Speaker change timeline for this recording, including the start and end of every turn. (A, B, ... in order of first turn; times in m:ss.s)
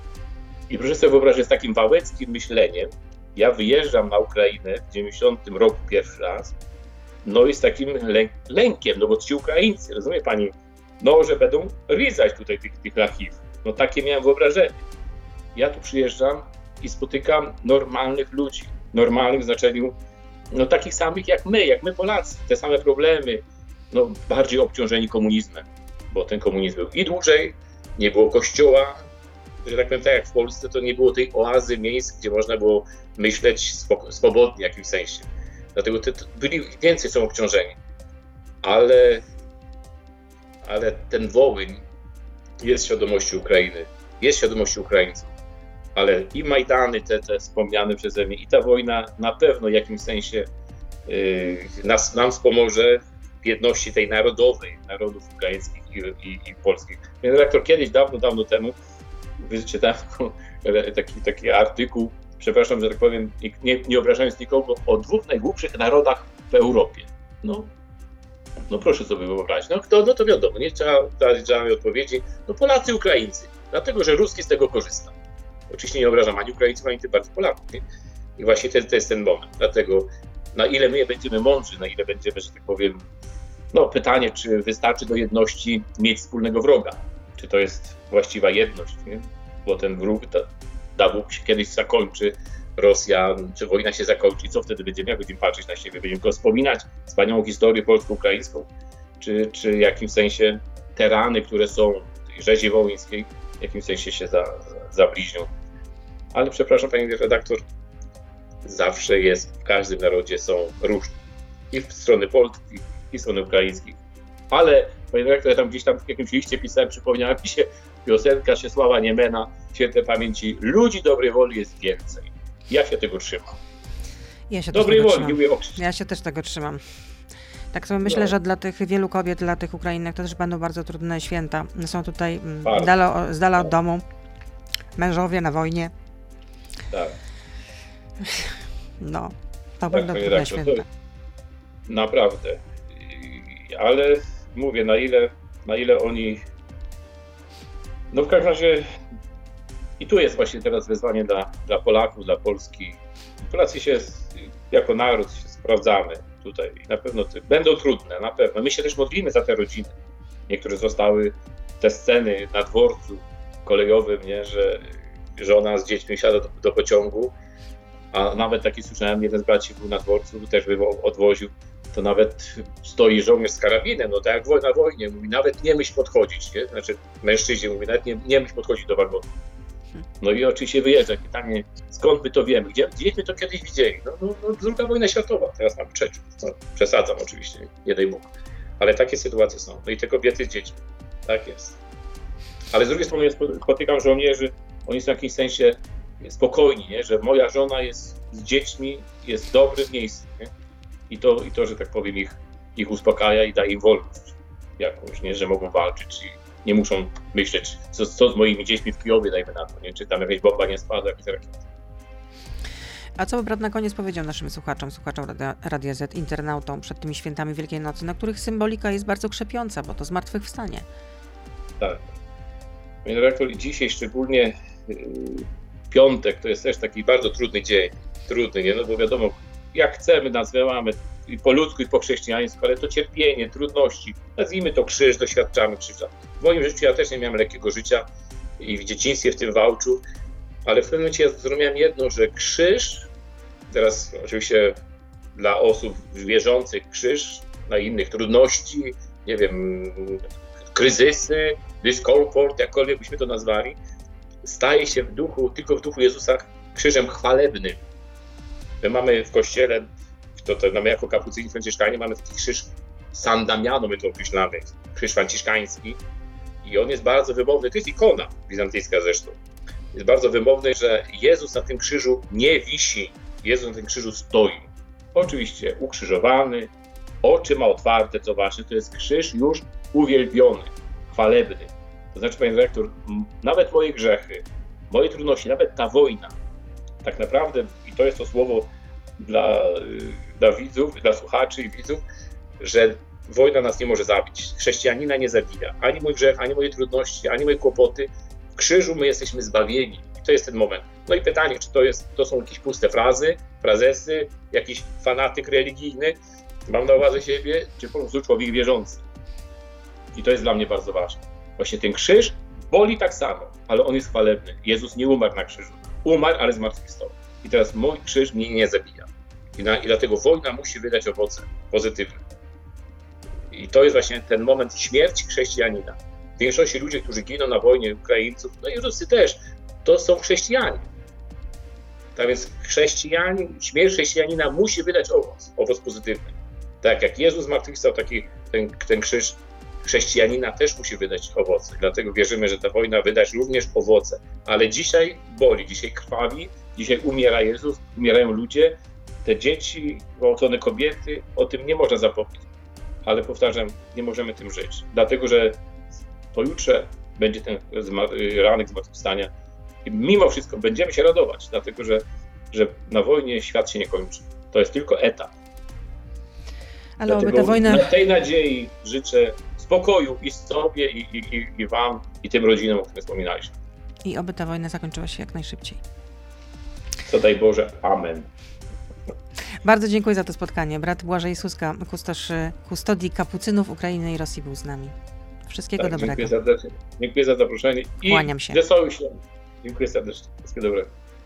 0:00.7-0:06.5 A
0:07.2-0:14.8 A
0:15.5-0:20.0 A
0:20.5-0:29.0 A
0:29.6-0:37.8 A
0:38.6-0:39.3 A
0:40.6-0:41.8 A
0:42.6-0:45.3 A
0:45.9-0:50.5 A
0:51.0-0:58.8 A
0:59.4-1:07.7 A
1:08.7-1:15.1 A
1:15.7-1:17.8 A
1:18.4-1:23.0 A
1:23.7-1:45.5 A
1:46.3-1:47.6 A
1:48.6-1:51.2 A
1:51.7-1:54.0 A
1:54.5-2:03.6 A
2:04.5-2:06.8 B
2:04.7-2:05.8 A
2:07.7-2:14.0 B
2:08.0-2:08.3 A
2:12.6-2:12.9 A
2:15.0-2:15.9 B
2:16.9-2:17.2 A
2:19.0-2:20.8 B
2:19.9-2:20.8 A
2:21.9-2:26.4 A
2:28.1-2:28.8 A
2:30.0-2:39.9 A
2:40.5-2:47.3 A
2:48.1-2:59.4 A
3:00.2-3:11.8 A
3:12.7-3:20.5 A
3:21.1-3:31.6 A
3:33.2-3:40.9 B
3:41.8-3:42.1 A
3:43.0-3:58.1 A
3:58.6-4:00.0 A
4:00.6-4:03.1 A
4:03.7-4:04.8 A
4:05.3-4:13.8 A
4:14.4-4:17.8 A
4:18.8-4:26.0 A
4:26.6-4:29.4 A
4:29.9-4:36.7 A
4:37.2-4:46.4 A
4:47.0-4:52.0 A
4:52.6-5:09.0 A
5:10.1-5:22.2 A
5:23.5-5:30.9 A
5:32.1-5:52.4 A
5:53.0-5:55.6 A
5:56.3-5:59.3 A
5:59.8-6:05.3 A
6:07.0-6:07.9 B
6:07.1-6:13.5 A
6:14.0-6:15.8 B
6:17.0-6:18.3 A
6:19.6-6:24.9 B
6:25.5-6:26.3 B
6:25.8-6:30.9 A
6:28.0-6:28.6 B